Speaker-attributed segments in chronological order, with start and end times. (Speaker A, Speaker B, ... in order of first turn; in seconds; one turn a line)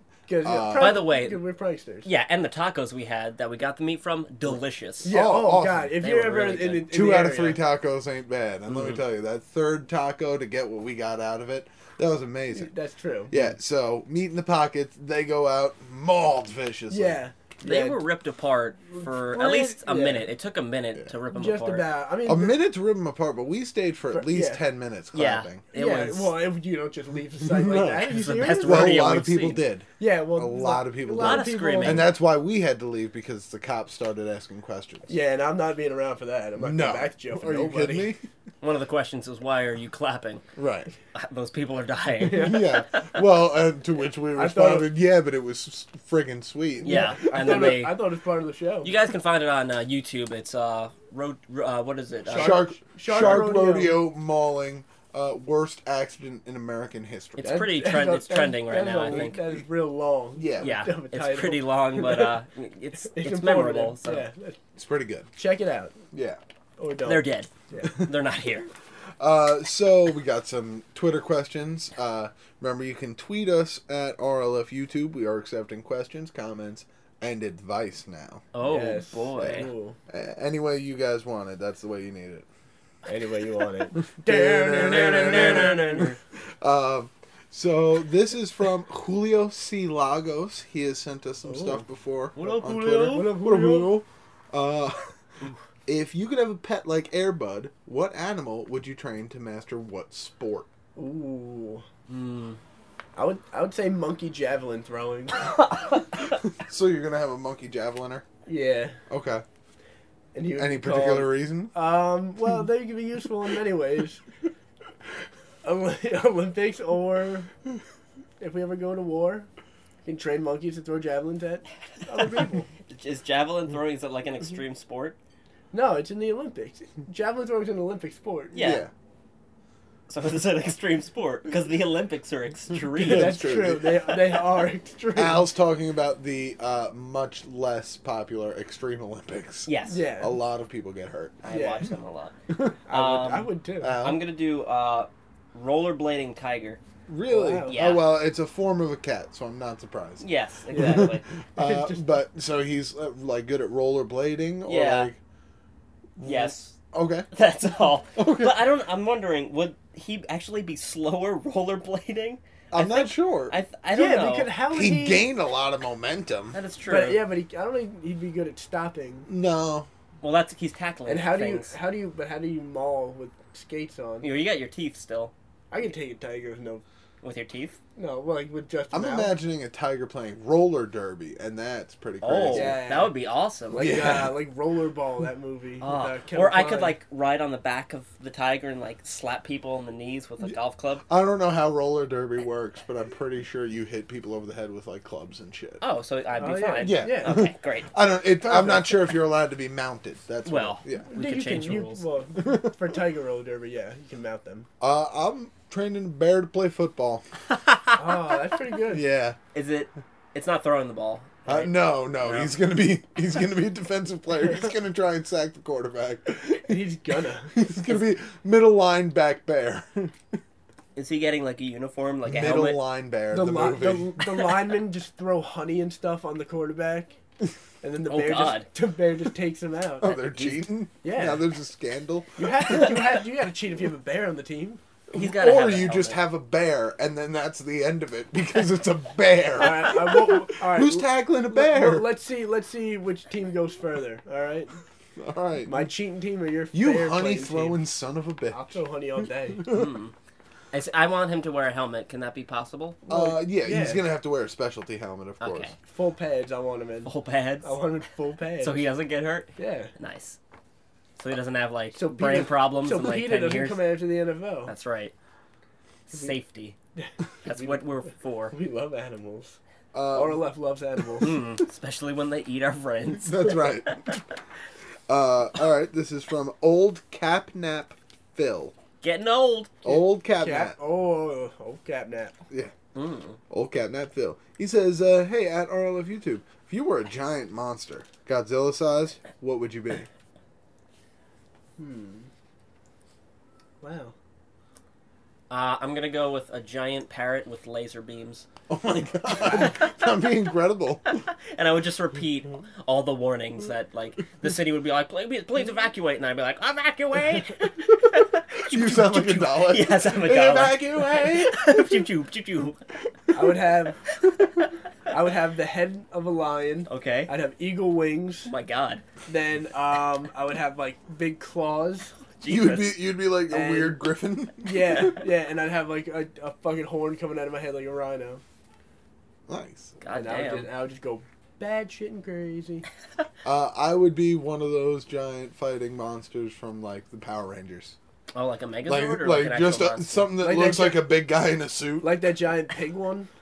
Speaker A: 0.3-2.1
Speaker B: 0.4-1.1
Speaker C: 0.8-1.4
Speaker C: 2.0-5.2
Speaker A: 5.0-7.6
Speaker B: 5.1-5.9
Speaker C: 6.0-6.9
Speaker B: 6.9-12.7
Speaker A: 12.5-13.4
Speaker B: 13.3-17.2
Speaker A: 16.9-18.0
Speaker C: 17.6-21.9
Speaker A: 19.0-20.3
Speaker A: 21.3-22.6
Speaker B: 22.2-25.6
Speaker A: 24.1-24.6
Speaker C: 25.1-26.3
Speaker A: 25.7-29.0
Speaker B: 27.4-35.1
Speaker C: 28.1-29.6
Speaker A: 30.0-32.1
Speaker C: 31.1-32.1
Speaker A: 35.1-38.1
Speaker B: 36.6-38.2
Speaker C: 38.6-40.5
Speaker B: 40.6-40.9
Speaker C: 41.1-43.2
Speaker A: 42.2-42.8
Speaker B: 42.3-47.5
Speaker A: 44.4-44.9
Speaker C: 46.8-48.0
Speaker A: 46.9-48.9
Speaker C: 48.8-53.5
Speaker A: 52.3-54.0
Speaker B: 52.3-57.6
Speaker C: 57.4-59.4
Speaker A: 57.4-62.4
Speaker B: 60.4-60.8
Speaker C: 60.6-64.3
Speaker A: 63.0-64.6
Speaker B: 64.8-65.3
Speaker A: 65.3-66.0
Speaker B: 66.1-66.4
Speaker A: 66.8-68.1
Speaker C: 67.0-68.7
Speaker B: 69.2-78.5
Speaker C: 78.5-79.7
Speaker A: 78.6-80.0
Speaker B: 79.4-82.5
Speaker A: 83.1-86.1
Speaker B: 84.2-86.1
Speaker C: 84.7-86.2
Speaker B: 86.6-95.1
Speaker A: 91.5-91.8
Speaker C: 92.4-93.3
Speaker A: 93.0-94.0
Speaker B: 95.9-100.7
Speaker A: 101.0-101.8
Speaker C: 102.1-102.6
Speaker A: 103.2-105.6
Speaker B: 106.6-108.3
Speaker A: 108.5-109.0
Speaker B: 109.1-109.4
Speaker A: 110.3-114.2
Speaker B: 110.5-111.7
Speaker A: 115.6-117.5
Speaker A: 118.4-119.5
Speaker A: 120.0-122.7
Speaker C: 122.9-125.2
Speaker A: 125.7-128.7
Speaker C: 128.5-128.9
Speaker B: 128.6-128.9
Speaker C: 130.1-133.4
Speaker B: 132.7-134.1
Speaker A: 133.0-135.5
Speaker B: 135.2-141.4
Speaker C: 139.7-140.0
Speaker A: 139.9-140.4
Speaker C: 141.4-142.4
Speaker A: 141.5-141.9
Speaker B: 142.5-142.8
Speaker A: 142.8-144.0
Speaker C: 142.9-146.8
Speaker B: 143.8-144.2
Speaker B: 147.1-155.2
Speaker A: 147.3-147.8
Speaker C: 147.7-148.1
Speaker C: 150.2-151.3
Speaker A: 150.7-152.0
Speaker C: 154.7-155.1
Speaker B: 156.2-157.3
Speaker C: 156.2-156.8
Speaker C: 157.3-164.5
Speaker B: 158.2-158.6
Speaker B: 162.7-163.6
Speaker A: 163.9-165.3
Speaker B: 164.7-166.6
Speaker C: 166.5-167.2
Speaker A: 166.9-169.3
Speaker B: 169.3-169.9
Speaker C: 170.2-171.8
Speaker A: 171.1-174.3
Speaker C: 174.2-175.3
Speaker A: 175.7-176.8
Speaker C: 177.2-177.8
Speaker A: 178.0-179.4
Speaker B: 178.9-182.8
Speaker C: 182.2-183.9
Speaker A: 182.5-183.2
Speaker A: 183.7-187.0
Speaker B: 183.8-184.4
Speaker C: 185.8-191.0
Speaker B: 191.1-195.8
Speaker C: 195.8-197.9
Speaker A: 196.4-197.4
Speaker B: 196.8-201.1
Speaker A: 198.4-199.0
Speaker C: 200.4-202.0
Speaker A: 201.1-204.7
Speaker B: 204.8-207.2
Speaker A: 207.9-209.0
Speaker B: 208.9-209.4
Speaker C: 209.5-212.6
Speaker B: 211.5-216.8
Speaker A: 216.7-217.7
Speaker B: 217.5-220.2
Speaker C: 221.0-222.8
Speaker B: 222.3-224.6
Speaker A: 223.3-227.2
Speaker A: 227.8-230.2
Speaker C: 228.1-228.7
Speaker B: 230.0-232.5
Speaker A: 231.0-231.4
Speaker A: 232.4-234.8
Speaker B: 235.1-242.1
Speaker C: 235.1-236.2
Speaker A: 239.6-244.8
Speaker B: 245.2-245.9
Speaker A: 245.7-247.8
Speaker B: 246.7-248.6
Speaker A: 248.5-249.7
Speaker B: 249.6-249.9
Speaker C: 249.7-250.1
Speaker C: 250.7-253.0
Speaker A: 253.1-254.1
Speaker B: 253.1-255.7
Speaker C: 255.4-255.8
Speaker A: 255.8-258.9
Speaker C: 257.1-257.8
Speaker C: 258.6-260.4
Speaker A: 259.6-259.9
Speaker C: 261.2-263.8
Speaker A: 261.9-264.7
Speaker C: 264.7-265.1
Speaker C: 266.1-266.8
Speaker A: 267.0-268.0
Speaker C: 267.4-268.6
Speaker A: 268.5-269.6
Speaker B: 269.9-270.4
Speaker A: 270.1-271.4
Speaker C: 271.2-273.7
Speaker B: 273.1-274.2
Speaker B: 275.1-278.8
Speaker C: 279.0-279.8
Speaker B: 279.8-280.8
Speaker A: 279.9-282.4
Speaker C: 282.9-283.4
Speaker B: 283.5-290.1
Speaker A: 291.8-292.3
Speaker A: 293.8-294.1
Speaker C: 295.5-298.5
Speaker B: 298.7-301.2
Speaker C: 299.4-300.1
Speaker C: 301.2-312.8
Speaker B: 308.6-312.1
Speaker A: 313.3-314.0
Speaker C: 314.3-314.7
Speaker A: 315.1-318.5
Speaker C: 316.9-317.3
Speaker C: 318.5-319.0
Speaker A: 319.3-322.1
Speaker C: 322.4-323.0
Speaker B: 322.4-325.2
Speaker A: 323.5-324.0
Speaker A: 324.6-328.4
Speaker B: 329.5-329.9
Speaker C: 330.0-330.7
Speaker A: 330.1-332.9
Speaker B: 333.4-338.0
Speaker C: 338.3-340.3
Speaker B: 338.9-342.2
Speaker A: 340.4-341.2
Speaker A: 342.0-343.3